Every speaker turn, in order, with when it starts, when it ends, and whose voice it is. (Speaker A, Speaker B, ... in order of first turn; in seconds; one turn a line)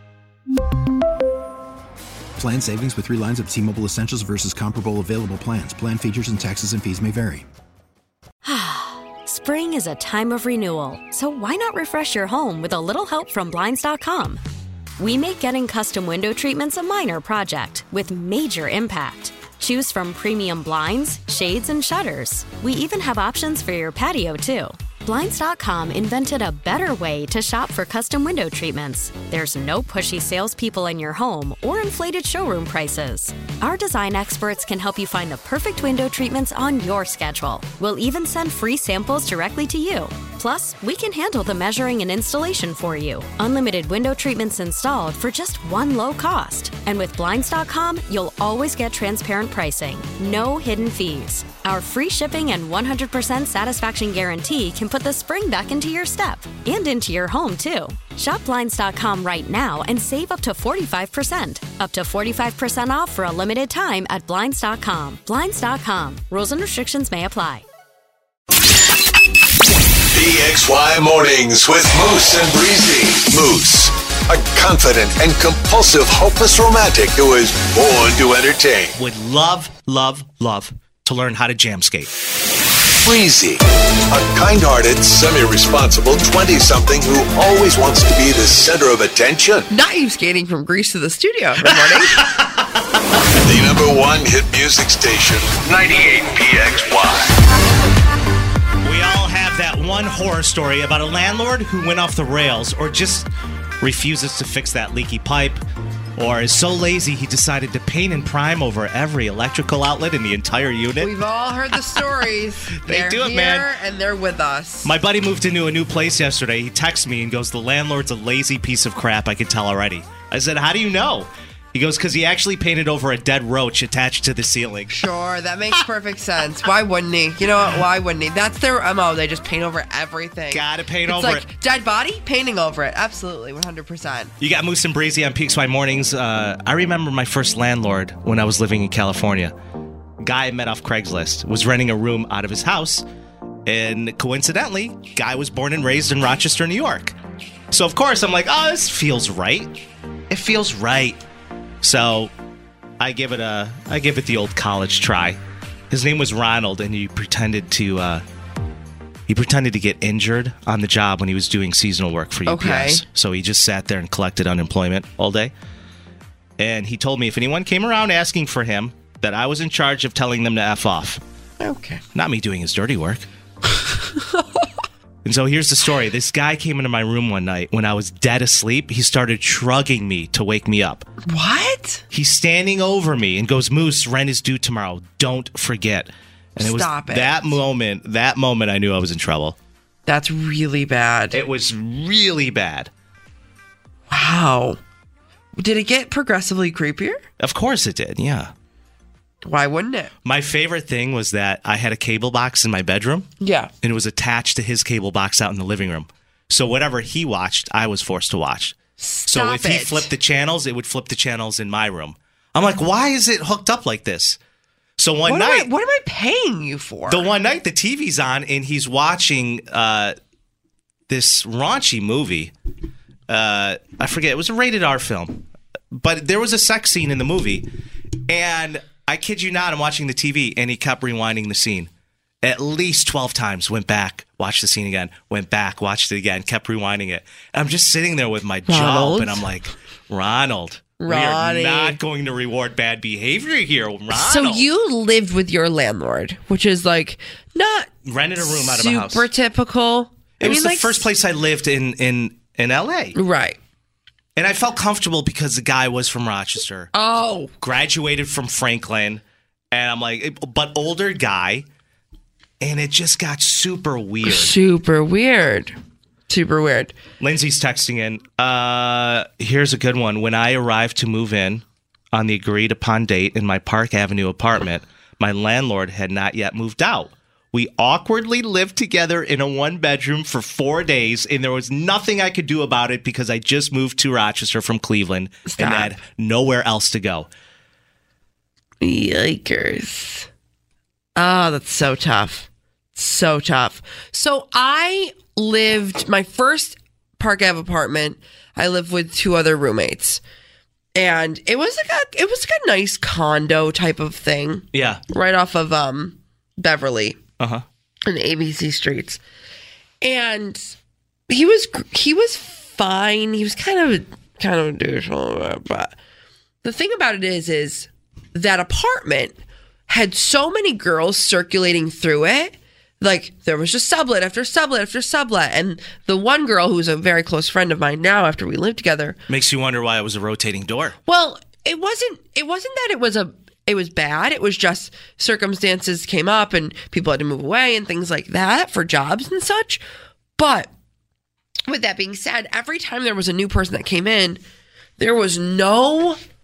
Speaker A: 2.4-7.5
Speaker B: 8.4-14.4
Speaker B: 15.0-67.6
Speaker C: 70.1-79.0
Speaker D: 79.0-82.1
Speaker C: 83.0-89.7
Speaker E: 89.7-92.2
Speaker D: 91.7-92.7
Speaker C: 93.4-97.3
Speaker D: 98.8-103.3
Speaker D: 103.8-105.6
Speaker D: 106.2-111.1
Speaker E: 111.0-114.9
Speaker D: 112.8-113.7
Speaker D: 114.8-125.0
Speaker E: 124.9-134.3
Speaker D: 130.5-131.4
Speaker D: 134.4-139.5
Speaker D: 140.2-143.1
Speaker D: 143.7-147.1
Speaker D: 147.7-149.8
Speaker D: 150.3-151.2
Speaker D: 151.8-152.3
Speaker D: 153.0-158.2
Speaker D: 159.3-165.5
Speaker E: 162.4-163.0
Speaker D: 166.6-171.2
Speaker E: 171.6-172.0
Speaker D: 172.1-173.3
Speaker E: 174.1-174.6
Speaker D: 175.2-181.1
Speaker E: 181.3-182.1
Speaker D: 182.1-189.6
Speaker E: 186.6-187.5
Speaker E: 190.1-191.4
Speaker D: 191.3-192.9
Speaker E: 194.1-194.8
Speaker E: 195.6-197.2
Speaker D: 197.4-198.5
Speaker E: 199.4-200.1
Speaker D: 200.2-203.3
Speaker E: 203.4-203.7
Speaker D: 203.8-208.8
Speaker E: 209.0-210.1
Speaker D: 209.3-214.4
Speaker D: 215.0-215.7
Speaker E: 215.2-217.3
Speaker D: 217.1-220.2
Speaker D: 221.1-222.5
Speaker D: 223.3-227.7
Speaker D: 228.3-231.9
Speaker D: 232.4-244.7
Speaker E: 238.7-239.4
Speaker E: 241.0-242.0
Speaker E: 244.1-251.1
Speaker D: 248.0-249.3
Speaker D: 250.4-253.2
Speaker E: 253.2-253.6
Speaker D: 254.4-256.9
Speaker E: 256.9-257.5
Speaker D: 257.6-261.7
Speaker D: 262.6-264.6
Speaker E: 264.2-265.8
Speaker E: 266.3-266.9
Speaker D: 267.2-287.3
Speaker E: 285.4-286.0
Speaker E: 288.8-290.3
Speaker E: 291.2-300.2
Speaker E: 301.0-307.2
Speaker D: 304.7-305.0
Speaker D: 307.4-307.6
Speaker E: 308.1-309.2
Speaker E: 310.0-310.7
Speaker E: 311.3-315.9
Speaker E: 316.6-329.2
Speaker D: 329.3-331.0
Speaker E: 331.1-339.8
Speaker E: 340.4-340.7
Speaker E: 341.7-344.4
Speaker E: 345.0-346.2